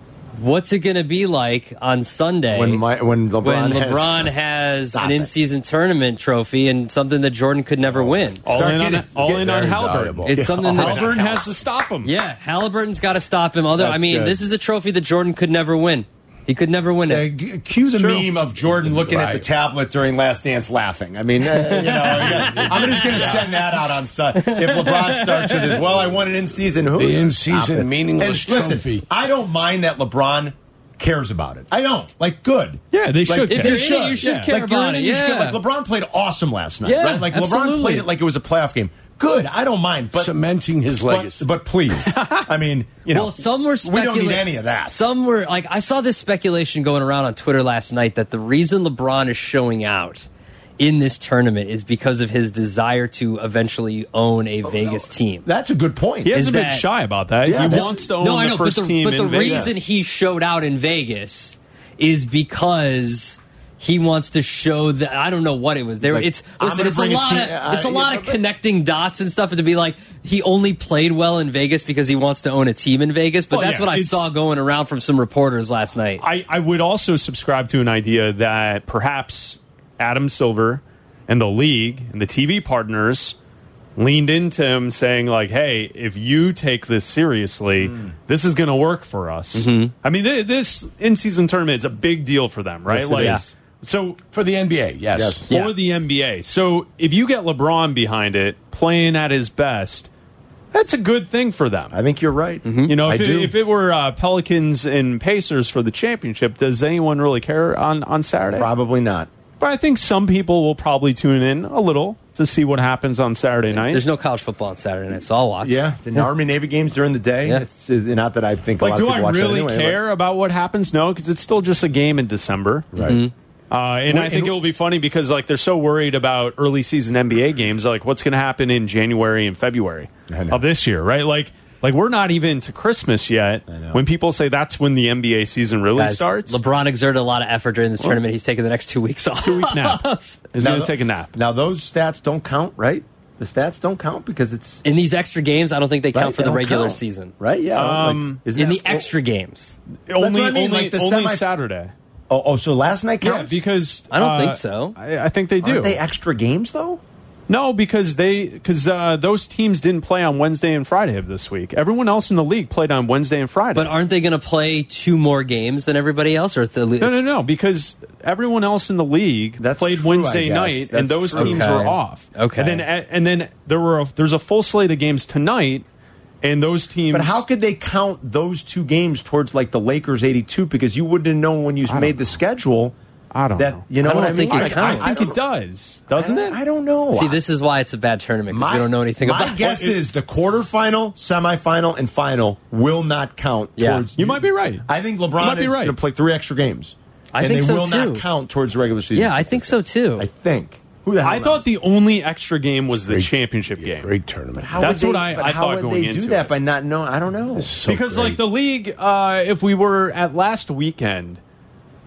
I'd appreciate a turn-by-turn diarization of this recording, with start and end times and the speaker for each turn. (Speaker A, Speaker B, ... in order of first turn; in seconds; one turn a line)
Speaker A: 0.3-2.8
Speaker B: 2.5-4.3
Speaker A: 3.4-8.4
Speaker B: 4.9-5.3
Speaker B: 8.0-9.7
Speaker C: 8.4-12.1
Speaker D: 9.2-10.3
Speaker A: 10.2-11.1
Speaker B: 10.3-11.5
Speaker A: 12.0-17.3
Speaker B: 13.8-14.4
Speaker B: 17.1-40.4
Speaker D: 18.6-19.4
Speaker A: 21.5-23.0
Speaker D: 22.3-23.4
Speaker A: 24.4-25.8
Speaker D: 27.0-29.0
Speaker C: 32.9-34.6
Speaker A: 33.5-35.6
Speaker A: 36.8-38.1
Speaker D: 40.1-41.4
Speaker B: 41.0-45.0
Speaker A: 43.1-50.3
Speaker A: 50.8-55.5
Speaker B: 54.6-56.4
Speaker C: 56.2-59.7
Speaker A: 56.3-56.9
Speaker B: 57.5-58.0
Speaker A: 57.6-76.2
Speaker B: 59.4-59.8
Speaker B: 66.0-68.4
Speaker C: 73.5-74.2
Speaker C: 76.2-83.3
Speaker C: 84.0-94.2
Speaker A: 89.5-89.9
Speaker B: 92.9-93.5
Speaker D: 94.3-95.5
Speaker B: 95.1-95.4
Speaker A: 95.5-95.7
Speaker C: 95.5-100.1
Speaker C: 100.7-101.9
Speaker B: 101.9-103.5
Speaker A: 102.6-102.9
Speaker C: 102.9-108.7
Speaker B: 108.5-109.3
Speaker C: 109.6-114.0
Speaker A: 113.7-116.3
Speaker B: 115.6-120.0
Speaker C: 118.8-123.0
Speaker B: 122.9-123.2
Speaker A: 123.0-123.3
Speaker C: 123.7-136.6
Speaker B: 124.1-124.6
Speaker B: 130.3-130.6
Speaker B: 133.7-134.0
Speaker A: 135.9-140.3
Speaker C: 139.4-141.3
Speaker B: 140.6-144.8
Speaker A: 144.8-147.3
Speaker B: 146.1-149.1
Speaker C: 147.8-148.4
Speaker A: 148.5-149.8
Speaker C: 150.1-151.9
Speaker B: 150.2-151.4
Speaker B: 152.3-153.6
Speaker C: 153.2-156.0
Speaker A: 154.1-154.9
Speaker B: 155.6-157.0
Speaker C: 157.5-163.9
Speaker A: 163.7-167.2
Speaker C: 167.0-175.8
Speaker B: 169.6-172.0
Speaker A: 171.3-172.8
Speaker C: 176.4-177.4
Speaker B: 177.1-182.9
Speaker C: 181.9-182.2
Speaker C: 183.3-186.6
Speaker B: 183.6-185.4
Speaker A: 184.0-185.3
Speaker B: 186.1-187.4
Speaker A: 187.1-190.0
Speaker B: 188.5-201.7
Speaker A: 193.8-194.0
Speaker C: 194.2-194.8
Speaker C: 195.4-195.9
Speaker A: 197.3-198.2
Speaker A: 199.1-200.3
Speaker C: 201.2-204.1
Speaker D: 203.0-204.8
Speaker B: 204.6-207.8
Speaker C: 204.8-206.5
Speaker D: 207.6-208.4
Speaker C: 207.8-211.4